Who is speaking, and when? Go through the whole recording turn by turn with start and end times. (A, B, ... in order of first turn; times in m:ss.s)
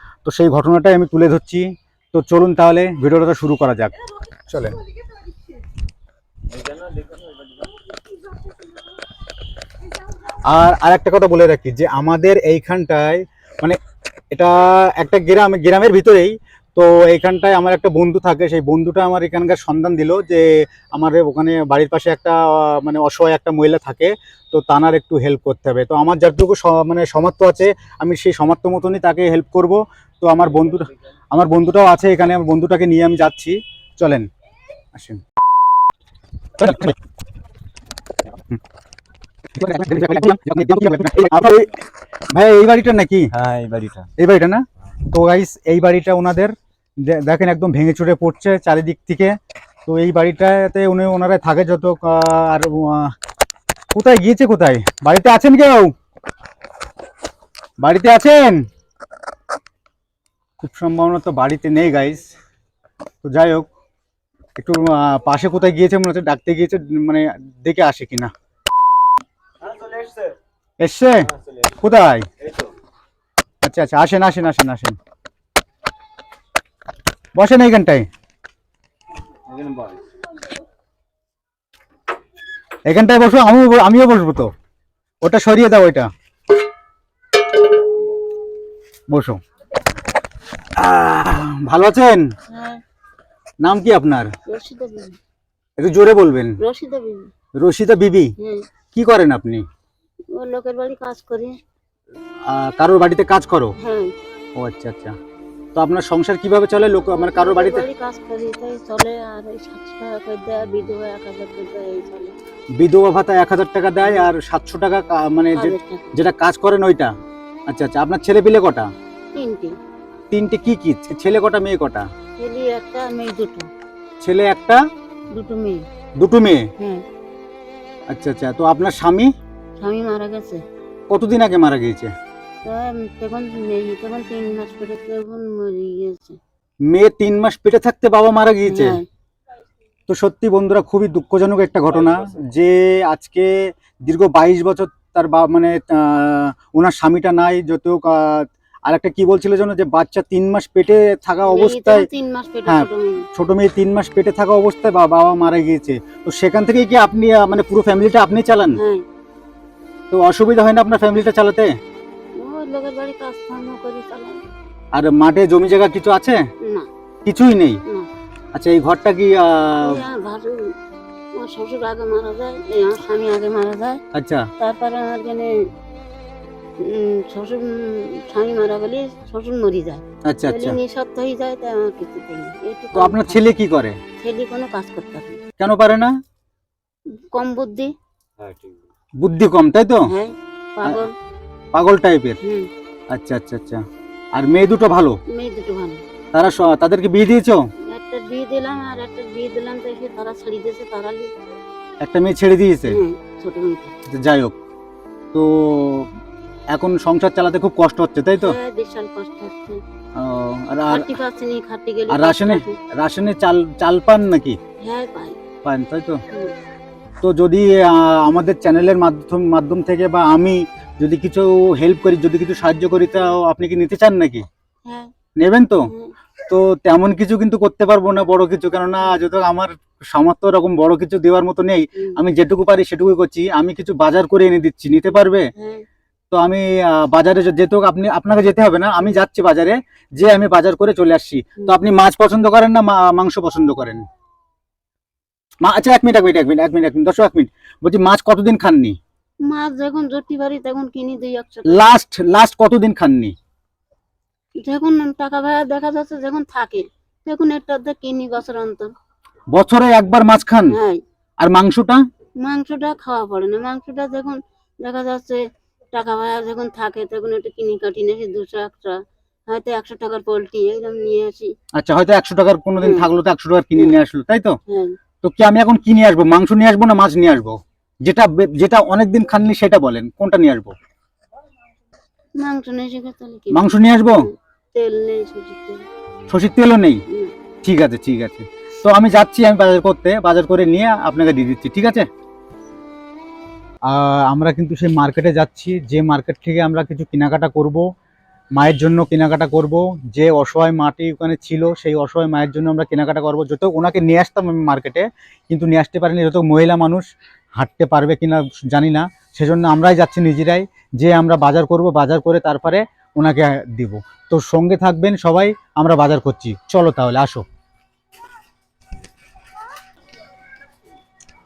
0:00.2-0:03.9 A
0:04.5-0:04.8 A
0:06.5-0:07.2 B
0:10.5-0:13.8 A
0:14.3-0:34.3 A
0:34.9-0:35.2 A
0:36.6-0:36.9 A
0:39.6-0:41.8 A
0:42.3-0:43.3 A
0:43.3-0:44.1 B
0:44.2-0:53.1 A
0:53.9-0:55.9 A
0:57.8-0:58.6 A
1:00.6-1:02.3 A
1:03.2-1:03.7 A
1:04.6-1:08.3 A
1:09.8-1:10.3 B
1:10.8-1:12.2 A
1:13.6-1:15.0 A
1:17.4-1:18.0 A
1:19.5-1:19.9 B
1:22.9-1:24.5 A
1:25.2-1:26.1 A
1:29.1-1:29.4 A
1:30.8-1:32.3 A
1:32.5-1:32.8 C
1:33.6-1:34.3 A
1:34.4-1:35.2 C
1:35.8-1:36.6 A
1:36.6-1:37.3 C
1:37.6-1:38.3 A
1:38.4-1:38.6 C
1:38.9-1:39.6 A
1:40.3-1:41.6 C
1:42.5-1:43.7 A
1:43.8-1:44.1 C
1:44.6-1:45.1 A
1:45.8-1:47.8 A
1:47.0-1:52.3 C
1:52.8-1:57.1 A
1:55.6-1:56.2 C
1:57.7-1:58.9 A
1:59.3-1:59.8 C
2:00.3-2:02.0 A
2:02.4-2:03.7 C
2:04.2-2:04.8 A
2:05.3-2:05.8 C
2:06.2-2:06.6 A
2:06.8-2:07.0 C
2:08.1-2:09.3 A
2:09.8-2:10.6 C
2:11.1-2:12.1 A
2:12.6-2:16.4 C
2:16.9-2:19.0 A
2:18.6-2:19.0 C
2:20.1-2:32.1 A
2:31.4-2:33.3 C
2:32.6-2:38.8 A
2:38.7-2:39.0 C
2:40.1-2:41.7 A
2:42.4-2:44.4 C
2:44.9-2:46.4 A
2:46.6-2:46.9 C
2:47.2-2:47.8 A
2:48.5-2:50.0 A
2:49.8-2:50.7 C
2:51.4-2:54.0 C
2:54.1-2:54.4 A
2:54.6-2:55.5 C
2:56.8-3:03.4 C
3:00.2-3:00.8 A
3:02.9-3:04.0 A
3:04.2-3:05.4 C
3:05.6-3:06.1 A
3:07.3-3:07.9 C
3:08.4-3:08.7 B
3:09.2-3:10.1 A
3:10.1-3:11.1 C
3:11.7-3:12.4 A
3:12.4-3:12.7 C
3:13.1-3:13.8 A
3:14.3-3:15.2 A
3:15.3-3:16.0 C
3:16.3-3:17.6 A
3:17.9-3:21.3 C
3:22.0-3:23.0 A
3:22.9-3:23.9 C
3:24.1-3:24.5 A
3:25.3-3:26.1 A
3:26.7-3:28.6 A
3:28.4-3:29.8 C
3:30.2-3:31.1 A
3:30.8-3:32.8 C
3:32.1-3:34.6 A
3:34.8-3:35.4 C
3:35.6-3:36.2 A
3:37.2-3:44.4 A
3:44.8-3:45.1 C
3:45.4-3:45.9 A
3:45.8-3:46.1 C
3:46.5-3:55.5 A
3:55.6-3:55.8 C
3:56.3-4:04.0 A
4:05.6-4:09.0 A
4:09.4-4:11.9 C
4:11.6-4:13.3 A
4:14.6-4:18.9 C
4:19.5-4:20.8 A
4:20.7-4:21.0 C
4:21.4-4:22.0 A
4:22.4-4:25.4 C
4:25.9-4:31.5 C
4:31.7-4:34.6 A
4:32.8-4:33.1 C
4:34.7-4:35.0 C
4:35.2-4:40.7 A
4:42.4-4:45.8 C
4:43.5-4:44.3 A
4:46.3-4:47.0 A
4:47.6-4:52.0 A
4:53.9-4:57.8 A
4:58.6-5:07.0 A
5:07.6-5:17.4 A